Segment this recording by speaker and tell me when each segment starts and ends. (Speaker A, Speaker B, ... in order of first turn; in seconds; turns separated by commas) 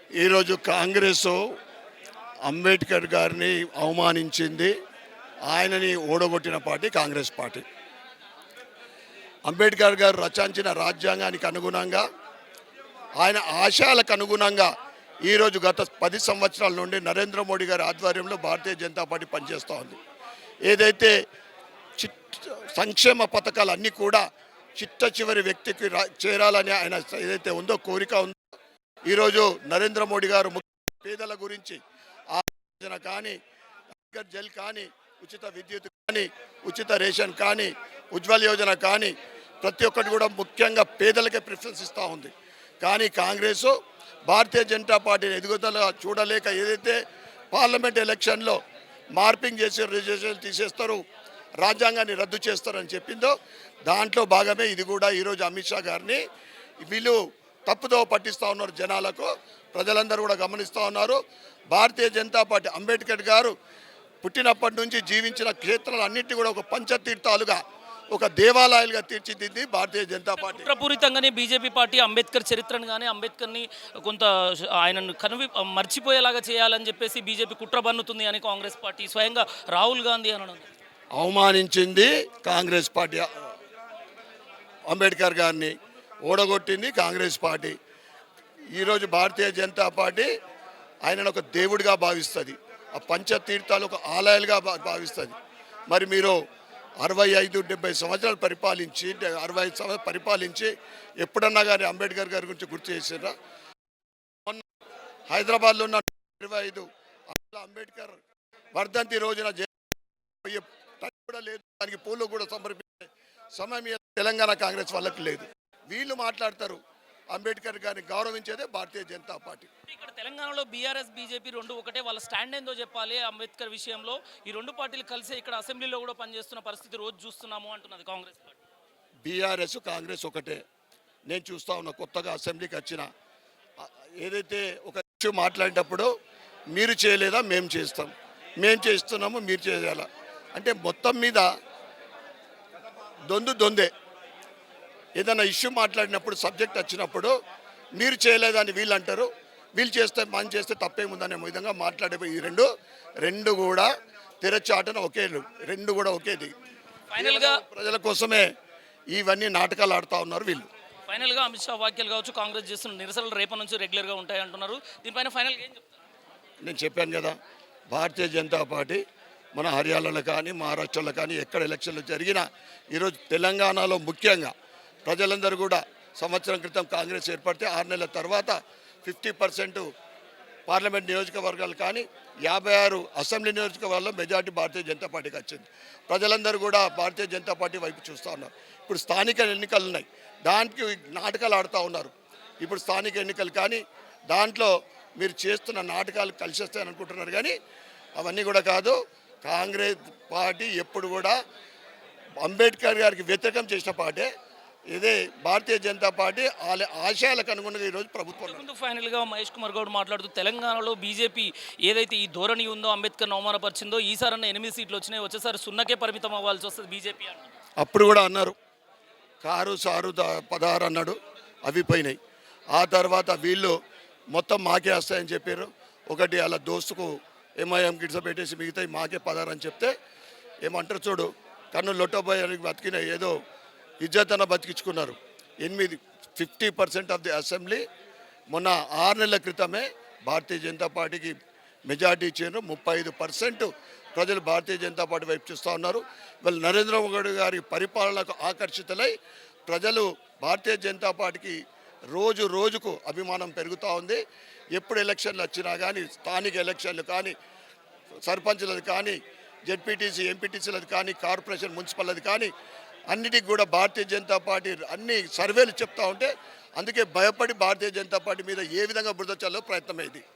Speaker A: 0.2-1.4, Speaker A: 2.4-4.7, Speaker A: 5.5-7.7, Speaker A: 9.5-12.1, Speaker A: 13.2-14.7, Speaker A: 15.2-20.0, Speaker A: 20.7-21.1, Speaker A: 22.0-24.2, Speaker A: 24.8-28.4, Speaker A: 29.1-31.8, Speaker A: 32.3-33.4, Speaker A: 34.0-43.7, Speaker A: 44.3-47.0, Speaker A: 47.5-48.6, Speaker A: 49.1-51.0, Speaker A: 51.6-53.4, Speaker A: 53.9-56.2, Speaker A: 56.8-61.2, Speaker A: 61.7-63.5, Speaker A: 64.2-67.6, Speaker A: 68.1-70.7, Speaker B: 70.4-80.7, Speaker A: 81.2-83.5, Speaker A: 84.9-85.7, Speaker A: 86.2-87.8, Speaker A: 88.7-90.3, Speaker A: 91.0-95.3, Speaker A: 95.9-96.4, Speaker A: 97.0-103.3, Speaker A: 105.3-108.2, Speaker A: 108.7-109.8, Speaker A: 110.4-116.8, Speaker A: 117.3-119.7, Speaker B: 119.9-128.6, Speaker A: 129.2-130.6, Speaker A: 131.3-133.1, Speaker A: 133.8-136.1, Speaker A: 136.7-141.5, Speaker A: 143.3-143.9, Speaker A: 145.2-147.3, Speaker A: 148.0-152.7, Speaker A: 153.2-153.9, Speaker A: 154.4-156.5, Speaker B: 157.1-157.6, Speaker A: 157.2-158.5, Speaker A: 159.1-160.7, Speaker B: 161.1-165.9, Speaker A: 166.6-167.4, Speaker A: 167.9-169.0, Speaker A: 169.5-174.5, Speaker A: 175.1-179.9, Speaker A: 180.7-192.1, Speaker A: 192.6-197.5, Speaker A: 198.2-201.4, Speaker A: 202.4-204.3, Speaker A: 204.9-208.6, Speaker B: 208.4-217.4, Speaker A: 217.8-218.6, Speaker A: 219.4-222.2, Speaker A: 222.7-223.8, Speaker A: 224.3-229.9, Speaker A: 230.6-233.3, Speaker A: 234.0-237.8, Speaker A: 238.5-241.3, Speaker A: 241.9-249.1, Speaker A: 249.7-251.6, Speaker A: 252.1-254.2, Speaker A: 254.8-257.4, Speaker A: 258.2-262.5, Speaker A: 263.1-270.2